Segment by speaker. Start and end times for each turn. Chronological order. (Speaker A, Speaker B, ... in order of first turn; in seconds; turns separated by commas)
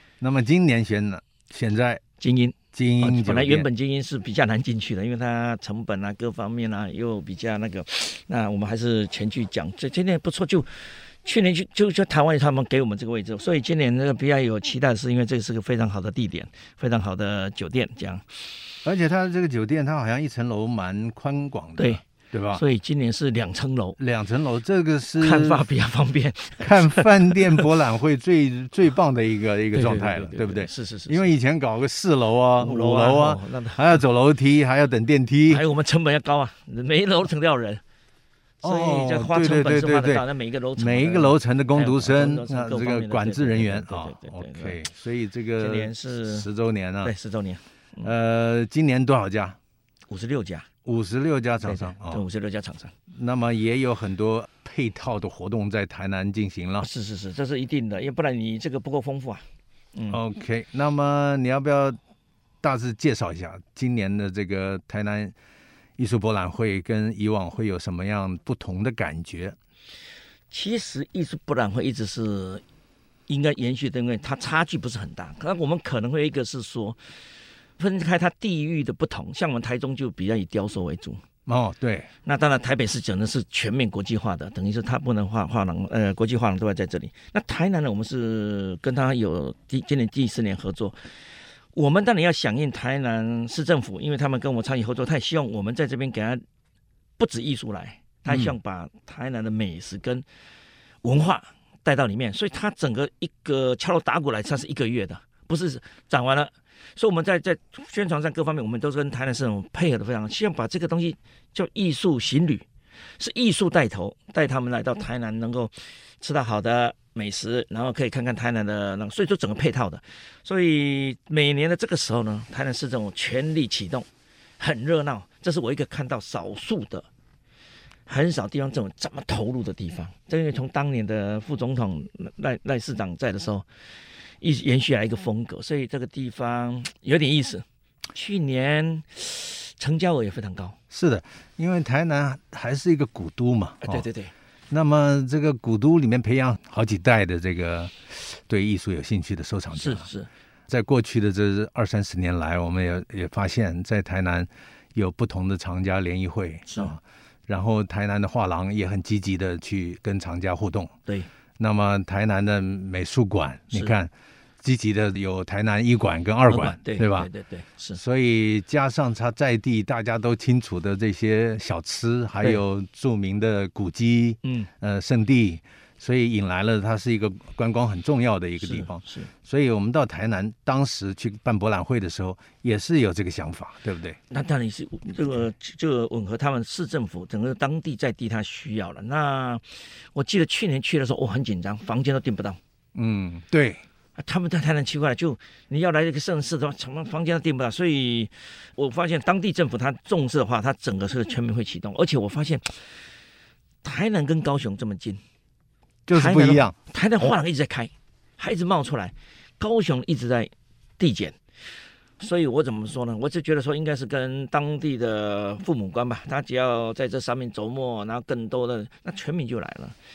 Speaker A: 0.2-2.0, Speaker B: 2.2-18.2, Speaker A: 2.7-3.7, Speaker A: 18.9-22.6, Speaker B: 21.8-22.0, Speaker B: 22.5-24.0, Speaker A: 24.0-25.6, Speaker B: 25.2-27.6, Speaker A: 26.6-35.6, Speaker B: 29.7-31.3, Speaker B: 32.6-33.8, Speaker B: 35.5-37.8, Speaker A: 38.6-40.2, Speaker B: 38.6-44.8, Speaker A: 40.8-47.1, Speaker B: 45.6-46.5, Speaker B: 47.0-48.1, Speaker A: 48.0-49.6, Speaker B: 50.1-50.7, Speaker A: 50.9-52.2, Speaker B: 51.6-52.9, Speaker A: 53.1-56.9, Speaker B: 56.8-60.2, Speaker A: 60.1-62.0, Speaker A: 62.6-65.3, Speaker A: 66.0-69.6, Speaker B: 70.5-72.6, Speaker B: 73.3-77.0, Speaker B: 77.8-81.2, Speaker A: 81.5-82.1, Speaker B: 82.2-91.0, Speaker B: 91.7-96.4, Speaker B: 97.2-100.2, Speaker A: 98.3-98.5, Speaker B: 101.0-112.7, Speaker B: 113.2-124.1, Speaker B: 124.6-127.1, Speaker B: 128.1-133.7, Speaker B: 134.4-140.8, Speaker A: 140.9-144.1, Speaker B: 143.8-144.3, Speaker A: 144.7-150.1, Speaker B: 149.7-150.3, Speaker A: 150.7-160.9, Speaker B: 156.7-156.9, Speaker A: 161.6-167.3, Speaker B: 166.5-168.0, Speaker A: 167.9-184.2, Speaker B: 174.4-174.7, Speaker B: 178.6-179.3, Speaker B: 184.3-192.6, Speaker A: 192.9-193.8, Speaker B: 194.2-202.9, Speaker B: 203.8-205.2, Speaker A: 206.1-206.8, Speaker B: 206.1-211.4, Speaker B: 212.2-220.0